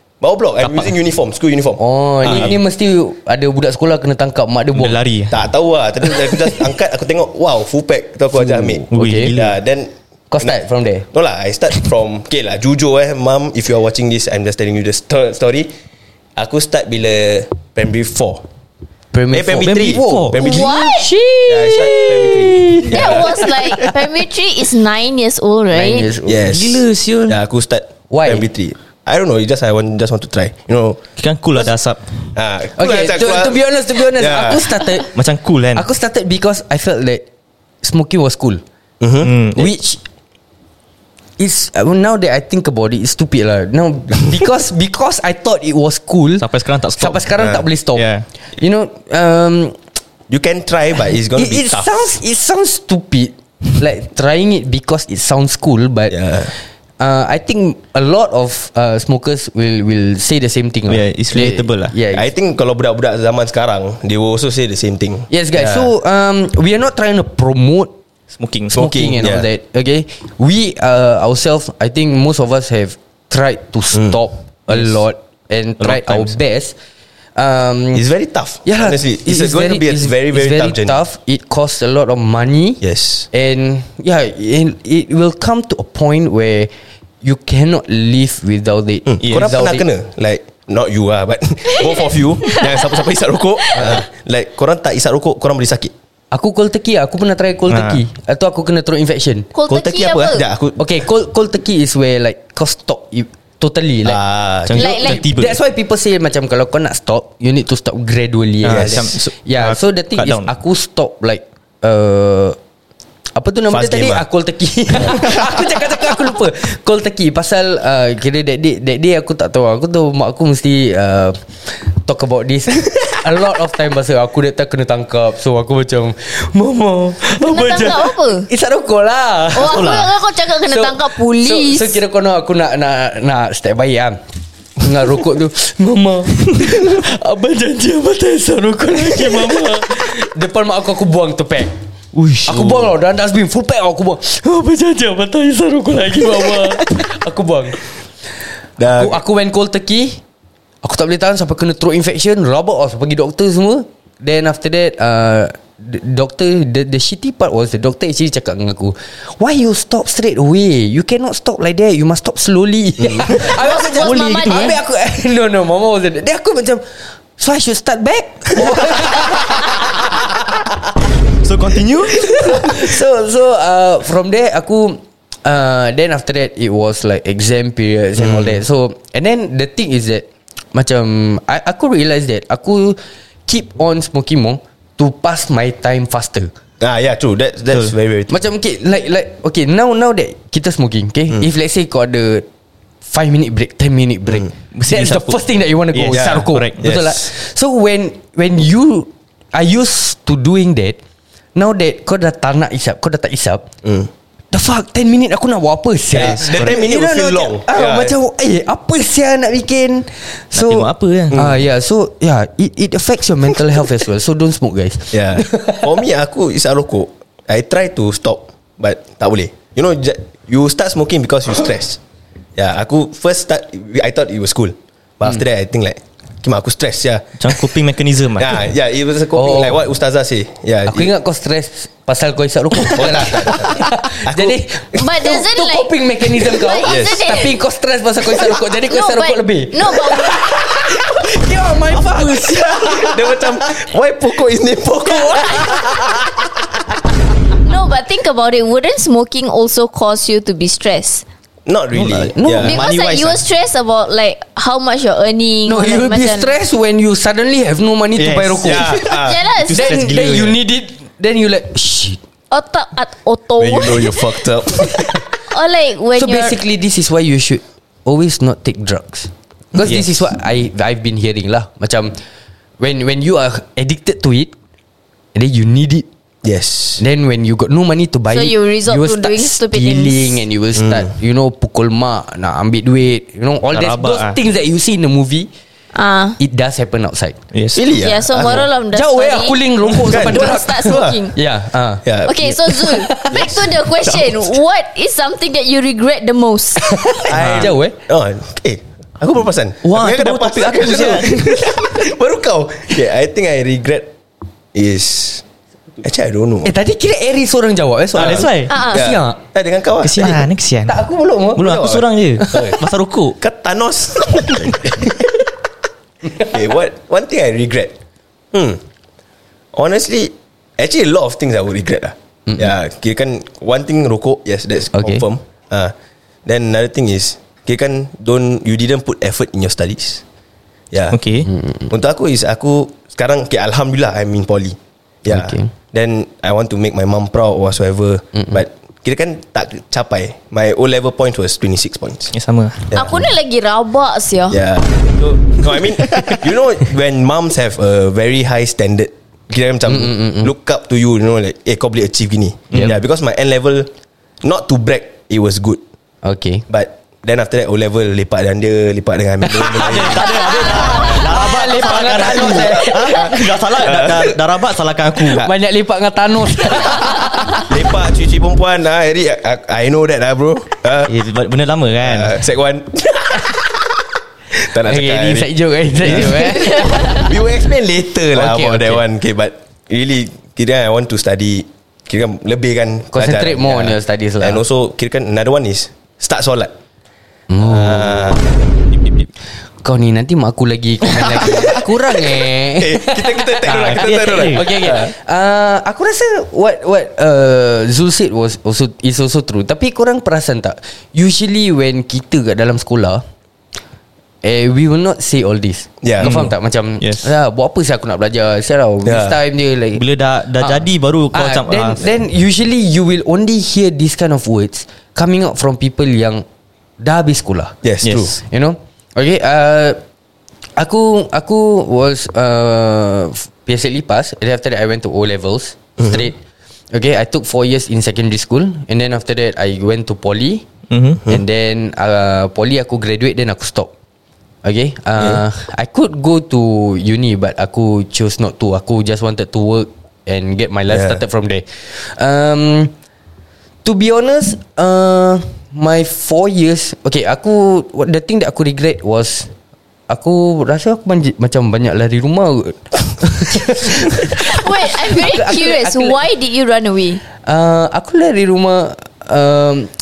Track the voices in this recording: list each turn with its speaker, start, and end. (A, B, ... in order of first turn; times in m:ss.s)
0:00.2-0:02.5 A
0:00.6-0:00.9 B
0:01.8-0:05.0 C
0:02.2-0:02.5 B
0:04.7-0:05.3 B
0:05.3-0:10.6 A
0:08.3-0:09.3 C
0:08.9-0:09.6 B
0:10.3-0:11.1 C
0:11.1-0:15.7 A
0:16.4-0:18.4 A
0:19.1-0:23.8 C
0:19.3-0:20.8 A
0:19.5-0:20.4 B
0:20.4-0:21.1 D
0:21.5-0:23.9 A
0:22.9-0:26.1 D
0:25.7-0:26.5 C
0:26.2-0:31.0 A
0:26.4-0:27.4 B
0:28.1-0:28.5 C
0:31.2-0:32.1 B
0:32.3-0:34.8 A
0:32.8-0:35.2 C
0:35.1-0:35.8 B
0:35.7-0:37.2 C
0:37.8-0:38.6 C
0:39.0-0:39.3 A
0:39.2-0:39.7 B
0:39.5-0:40.0 C
0:41.4-0:48.0 C
0:46.4-0:48.2 B
0:48.6-0:49.8 C
0:50.3-0:52.0 A
0:51.3-1:02.3 C
0:56.1-0:56.5 A
1:00.9-1:01.9 B
1:02.1-1:05.9 A
1:05.3-1:07.9 C
1:08.3-1:08.8 B
1:08.7-1:09.4 A
1:08.7-1:16.7 C
1:15.8-1:16.3 B
1:17.4-1:18.0 C
1:17.9-1:21.0 A
1:18.6-1:26.7 C
1:22.8-1:23.3 A
1:27.2-1:29.8 C
1:29.1-1:35.9 A
1:29.2-1:29.5 B
1:32.5-1:32.8 D
1:33.8-1:34.0 C
1:36.3-1:39.5 C
1:37.7-1:38.0 B
1:39.5-1:40.4 D
1:39.7-1:41.0 A
1:40.8-1:44.2 C
1:44.0-1:45.0 A
1:44.6-1:45.6 B
1:44.7-1:45.3 D
1:45.0-1:52.6 C
1:48.6-1:50.5 B
1:48.6-1:49.2 A
1:53.3-2:10.0 C
1:53.7-1:54.2 A
1:55.0-1:55.3 A
2:07.4-2:08.5 D
2:09.5-2:12.0 D
2:09.6-2:10.1 B
2:10.6-2:14.2 C
2:14.8-2:21.7 C
2:22.1-2:22.9 B
2:22.4-2:27.8 C
2:28.8-2:29.2 A
2:28.8-2:30.2 C
2:30.8-2:46.8 C
2:43.3-2:44.8 D
2:47.4-2:50.7 C
2:51.4-2:52.9 B
2:52.1-3:06.5 C
2:58.2-2:58.5 A
3:06.8-3:08.4 A
3:08.3-3:12.4 C
3:13.0-3:21.0 C
3:14.7-3:16.8 B
3:16.1-3:17.2 A
3:21.5-3:23.6 C
3:23.8-3:24.1 A
3:24.5-3:35.8 C
3:26.1-3:28.1 A
3:26.2-3:26.8 B
3:30.5-3:31.4 B
3:31.3-3:31.6 A
3:35.1-3:42.0 A
3:42.6-3:47.7 A
3:47.4-3:48.6 B
3:48.4-3:51.1 A
3:49.3-3:49.8 C
3:50.8-4:03.4 C
3:52.9-3:55.1 A
3:54.9-3:57.5 D
3:56.8-3:57.3 A
3:58.9-4:00.5 D
4:02.1-4:06.5 A
4:05.0-4:06.3 C
4:07.6-4:11.2 D
4:11.6-4:13.4 A
4:11.9-4:12.8 C
4:12.6-4:16.5 D
4:15.6-4:19.0 C
4:18.2-4:20.6 B
4:18.6-4:19.5 A
4:19.0-4:20.2 D
4:19.7-4:22.2 C
4:22.5-4:24.4 D
4:23.6-4:25.2 A
4:25.5-4:26.6 D
4:26.2-4:32.2 C
4:29.8-4:30.1 B
4:32.8-4:34.5 C
4:35.3-4:36.1 C
4:36.4-4:37.0 A
4:37.0-4:45.5 C
4:38.3-4:40.4 D
4:40.7-4:41.1 A
4:43.7-4:44.4 B
4:45.9-4:46.4 D
4:46.4-4:47.4 C
4:47.5-4:47.8 B
4:47.7-4:48.7 A
4:47.9-4:51.3 D
4:48.9-4:52.0 C
4:50.0-4:51.3 A
4:52.0-4:54.5 A
4:52.2-4:57.0 D
4:52.7-4:53.5 C
4:56.9-4:58.0 C
4:57.2-5:04.1 A
4:57.3-4:57.7 B
4:59.8-5:01.6 B
5:04.7-5:05.4 A
5:06.0-5:06.7 A
5:06.6-5:09.4 C
5:08.1-5:10.5 A
5:08.2-5:08.7 B
5:08.7-5:09.1 D
5:10.0-5:11.0 B
5:10.9-5:11.7 C
5:11.6-5:13.4 B
5:11.6-5:12.8 A
5:13.4-5:15.2 A
5:16.4-5:17.9 A
5:18.5-5:18.8 A
5:19.7-5:25.9 A
5:24.9-5:25.2 C
5:26.4-5:30.2 A
5:30.9-5:31.2 A
5:31.1-5:31.5 B
5:31.4-5:31.9 C
5:31.9-5:42.3 A
5:35.3-5:35.7 C
5:42.3-5:42.9 B
5:42.9-5:43.3 A
5:42.9-5:44.6 D
5:44.5-5:53.9 A
5:46.1-5:46.4 B
5:49.8-5:50.5 C
5:54.4-5:55.8 A
5:56.2-5:56.6 C
5:56.7-6:04.4 A
5:59.4-6:03.3 C
5:59.8-6:05.5 B
6:05.2-6:05.5 A
6:05.4-6:07.7 C
6:07.6-6:11.1 A
6:11.0-6:12.4 B
6:12.0-6:13.8 A
6:14.5-6:26.7 A
6:14.8-6:17.3 C
6:18.3-6:19.0 C
6:23.1-6:24.6 C
6:27.5-6:28.4 C
6:27.6-6:28.6 A
6:28.9-6:29.3 B
6:29.8-6:43.2 C
6:32.8-6:35.1 A
6:33.6-6:34.6 B
6:44.4-6:50.0 C
6:46.0-6:46.4 A
6:46.2-6:47.3 B
6:49.0-6:49.4 A
6:49.9-6:52.0 B
6:50.6-6:56.4 C
6:57.0-6:57.8 C
6:57.8-6:58.4 A
6:58.0-6:58.3 B
6:58.4-7:00.0 C
7:00.8-7:06.4 C
7:06.0-7:06.3 A
7:06.9-7:10.6 C
7:10.9-7:11.2 B
7:11.3-7:13.9 C
7:14.6-7:22.9 C
7:20.9-7:21.2 A
7:23.8-7:29.5 C
7:30.1-7:36.2 C
7:34.4-7:37.2 D
7:37.4-7:39.9 C